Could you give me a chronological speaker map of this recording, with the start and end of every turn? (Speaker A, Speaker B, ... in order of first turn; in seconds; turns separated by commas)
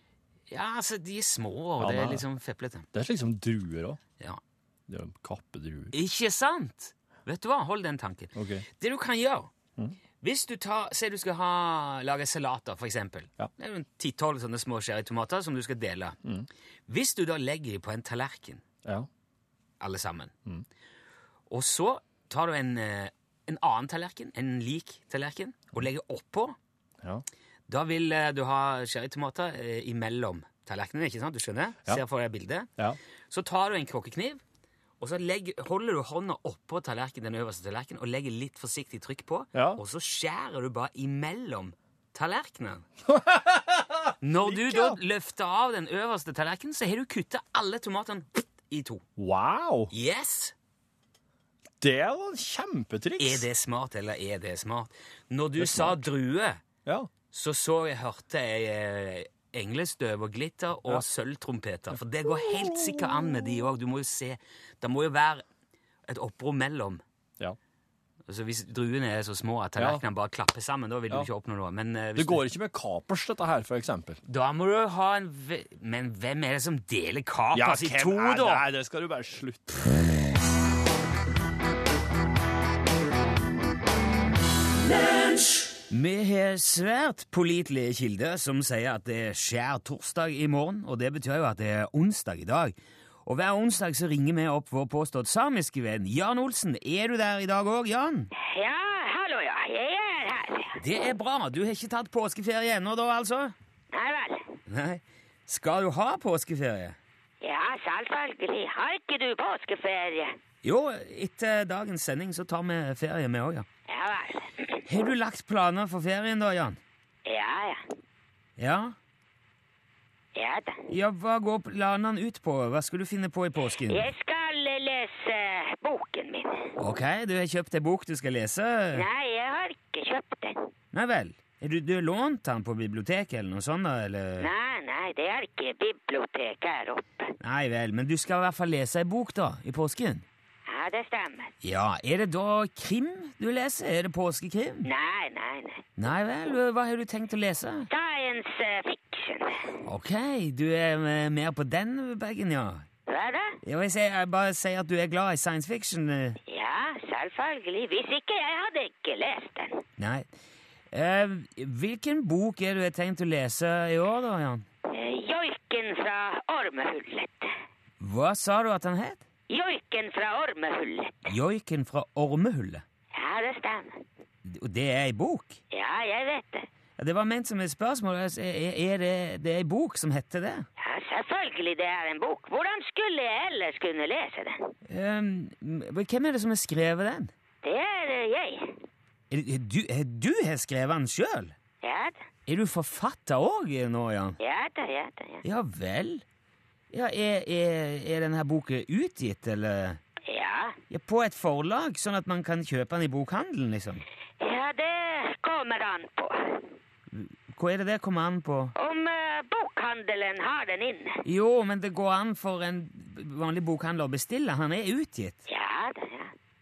Speaker A: 0.5-2.9, Speaker B: 1.8-2.2, Speaker B: 2.9-4.0, Speaker B: 4.9-5.9, Speaker A: 5.9-9.5, Speaker B: 8.3-8.6, Speaker A: 10.2-16.2, Speaker A: 16.9-18.6, Speaker A: 19.8-20.3, Speaker A: 21.5-26.6, Speaker A: 27.7-32.7, Speaker A: 33.3-34.4, Speaker A: 35.0-42.8, Speaker B: 39.5-39.8, Speaker B: 43.0-45.0, Speaker A: 44.2-49.0, Speaker B: 49.2-49.9, Speaker A: 49.9-50.5, Speaker B: 51.8-53.5, Speaker A: 53.2-56.6, Speaker B: 55.6-56.0, Speaker A: 57.3-65.4, Speaker B: 61.9-63.2, Speaker A: 66.1-67.0, Speaker A: 68.3-72.5, Speaker B: 69.8-70.0, Speaker B: 72.2-74.2, Speaker A: 74.2-78.6, Speaker B: 77.5-80.2, Speaker A: 85.9-92.7, Speaker A: 93.2-98.3, Speaker C: 98.3-100.7, Speaker A: 100.7-103.5, Speaker C: 103.9-104.5, Speaker A: 104.7-107.0, Speaker C: 107.4-110.3, Speaker A: 110.6-113.7, Speaker C: 113.9-114.8, Speaker A: 114.8-116.8, Speaker C: 117.2-117.8, Speaker A: 118.6-118.9, Speaker C: 120.3-120.8, Speaker A: 120.9-124.1, Speaker C: 123.9-126.7, Speaker A: 126.8-129.0, Speaker C: 128.9-130.7, Speaker A: 130.9-134.5, Speaker C: 134.4-137.3, Speaker A: 137.4-140.2, Speaker C: 140.7-141.5, Speaker A: 141.6-144.9, Speaker C: 144.8-145.8, Speaker A: 146.0-147.9, Speaker C: 147.9-149.7, Speaker A: 149.8-152.9, Speaker C: 153.1-153.6, Speaker A: 153.6-156.4, Speaker C: 156.5-159.8, Speaker A: 160.0-160.3, Speaker A: 160.9-164.7, Speaker C: 164.9-167.5, Speaker A: 168.0-169.2, Speaker C: 169.5-171.3, Speaker A: 171.2-172.8, Speaker C: 173.1-174.0, Speaker A: 174.4-175.6, Speaker C: 175.7-176.7, Speaker A: 177.0-180.7, Speaker C: 180.8-184.7, Speaker A: 184.9-187.3, Speaker C: 187.6-188.8, Speaker A: 189.3-191.5, Speaker C: 191.8-192.2, Speaker A: 192.5-194.4, Speaker C: 194.4-195.4, Speaker A: 195.4-196.2, Speaker A: 196.9-200.0, Speaker C: 200.2-200.8, Speaker A: 200.9-204.0, Speaker C: 204.4-206.6, Speaker A: 207.1-208.7, Speaker C: 208.8-211.2, Speaker A: 211.2-215.4, Speaker C: 215.5-216.3